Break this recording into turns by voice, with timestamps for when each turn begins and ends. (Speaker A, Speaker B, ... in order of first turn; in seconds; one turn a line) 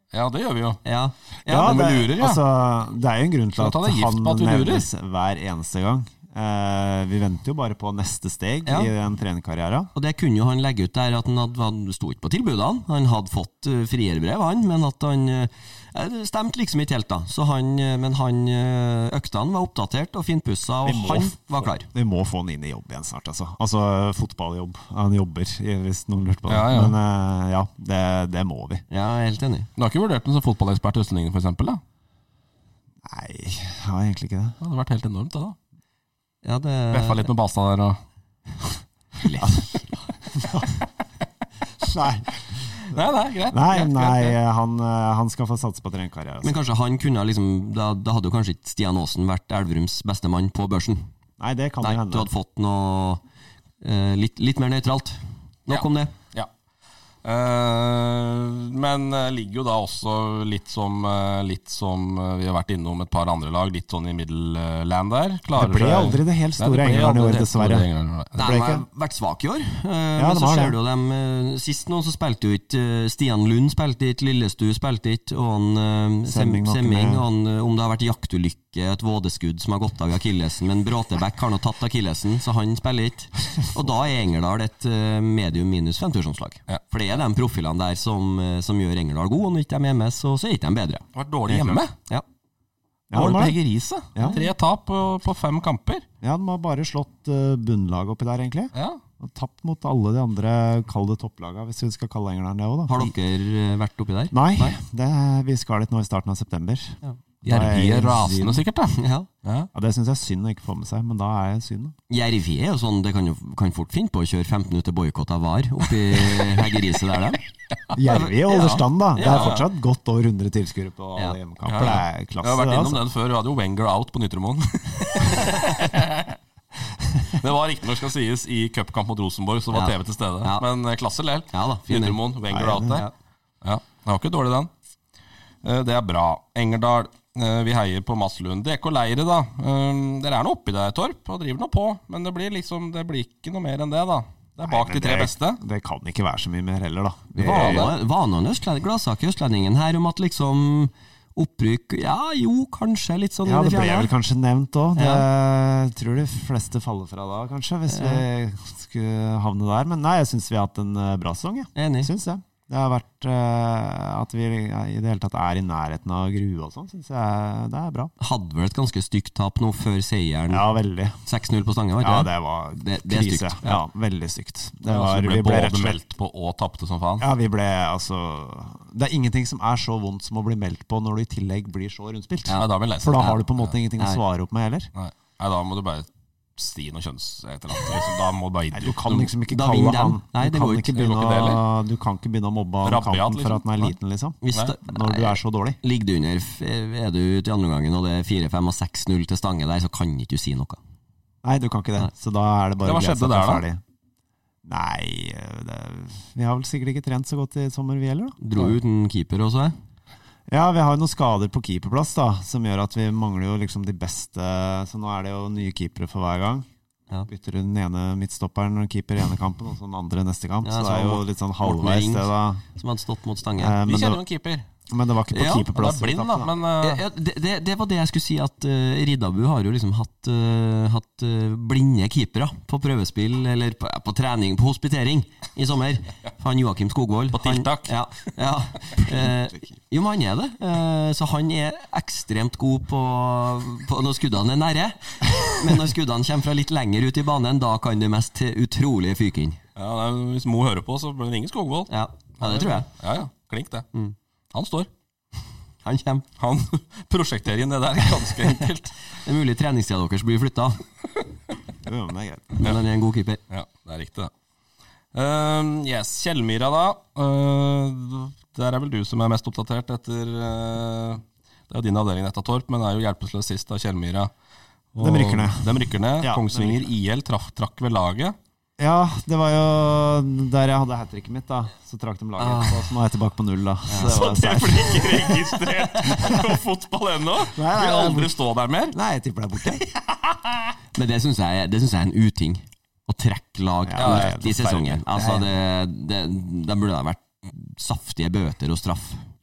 Speaker A: 0.1-0.8
Speaker B: 0.8-1.9
Speaker C: 1.5-9.9
Speaker A: 1.6-2.4
Speaker A: 3.6-4.9
Speaker B: 8.7-8.9
Speaker B: 9.9-21.9
Speaker C: 20.8-28.8
Speaker A: 26.5-27.0
Speaker B: 28.9-29.7
Speaker A: 29.8-31.8
Speaker C: 33.0-34.6
Speaker A: 34.6-35.6
Speaker B: 36.4-37.3
Speaker A: 36.9-38.0
Speaker B: 39.2-39.7
Speaker C: 39.4-39.7
Speaker C: 40.3-40.7
Speaker C: 41.8-42.4
Speaker A: 42.8-44.4
Speaker C: 43.5-46.6
Speaker B: 46.4-51.1
Speaker C: 51.4-52.3
Speaker B: 51.8-53.2
Speaker B: 53.8-56.1
Speaker A: 55.7-56.5
Speaker A: 57.2-68.4
Speaker C: 65.5-68.8
Speaker B: 68.4-91.0
Speaker C: 70.2-70.8
Speaker C: 76.3-77.3
Speaker A: 91.2-91.9
Speaker C: 93.1-93.6
Speaker A: 93.1-96.0
Speaker C: 94.2-94.4
Speaker C: 96.2-103.0
Speaker A: 98.7-99.0
Speaker B: 102.9-104.8
Speaker C: 104.3-108.7
Speaker A: 107.4-109.7
Speaker B: 109.0-109.3
Speaker C: 109.7-112.0
Speaker B: 112.1-117.4
Speaker A: 116.3-116.6
Speaker C: 117.9-123.0
Speaker B: 118.1-119.6
Speaker A: 119.2-119.6
Speaker A: 121.7-126.4
Speaker A: 127.2-133.1
Speaker B: 129.7-130.7
Speaker B: 131.5-132.2
Speaker C: 132.5-133.1
Speaker A: 133.6-134.7
Speaker A: 135.6-145.6
Speaker C: 144.7-147.9
Speaker B: 147.4-154.1
Speaker A: 147.4-148.0
Speaker C: 153.4-168.1
Speaker B: 155.0-155.3
Speaker B: 157.9-158.2
Speaker B: 161.8-162.1
Speaker B: 168.2-170.7
Speaker C: 170.5-171.2
Speaker B: 171.2-173.8
Speaker C: 172.0-176.0
Speaker A: 174.9-177.3
Speaker C: 177.2-184.9
Speaker A: 182.5-183.7
Speaker A: 184.9-189.3
Speaker C: 188.7-195.8
Speaker B: 189.5-191.0
Speaker A: 190.9-191.6
Speaker A: 192.8-193.9
Speaker B: 194.4-200.8
Speaker C: 201.4-203.8
Speaker A: 202.8-203.6
Speaker C: 204.6-208.8
Speaker B: 208.4-209.8
Speaker C: 210.5-216.7
Speaker C: 217.3-222.6
Speaker B: 220.6-223.8
Speaker C: 223.6-224.2
Speaker A: 223.9-224.7
Speaker C: 224.9-226.6
Speaker B: 225.3-225.7
Speaker A: 225.7-227.0
Speaker B: 226.8-249.6
Speaker A: 237.3-238.0
Speaker C: 239.1-239.6
Speaker A: 249.8-253.9
Speaker B: 251.9-252.9
Speaker A: 254.5-254.9
Speaker B: 255.8-256.3
Speaker A: 256.4-259.0
Speaker B: 259.2-260.8
Speaker C: 261.9-262.6
Speaker B: 262.6-263.4
Speaker A: 263.5-264.3
Speaker A: 265.1-274.3
Speaker A: 274.9-278.4
Speaker C: 275.0-276.9
Speaker C: 278.8-285.4
Speaker B: 282.4-282.9
Speaker B: 283.9-284.3
Speaker A: 283.9-289.0
Speaker B: 286.1-286.4
Speaker C: 287.5-288.3
Speaker C: 288.9-289.8
Speaker A: 289.6-290.6
Speaker B: 290.9-299.2
Speaker C: 293.9-295.5
Speaker A: 294.0-295.0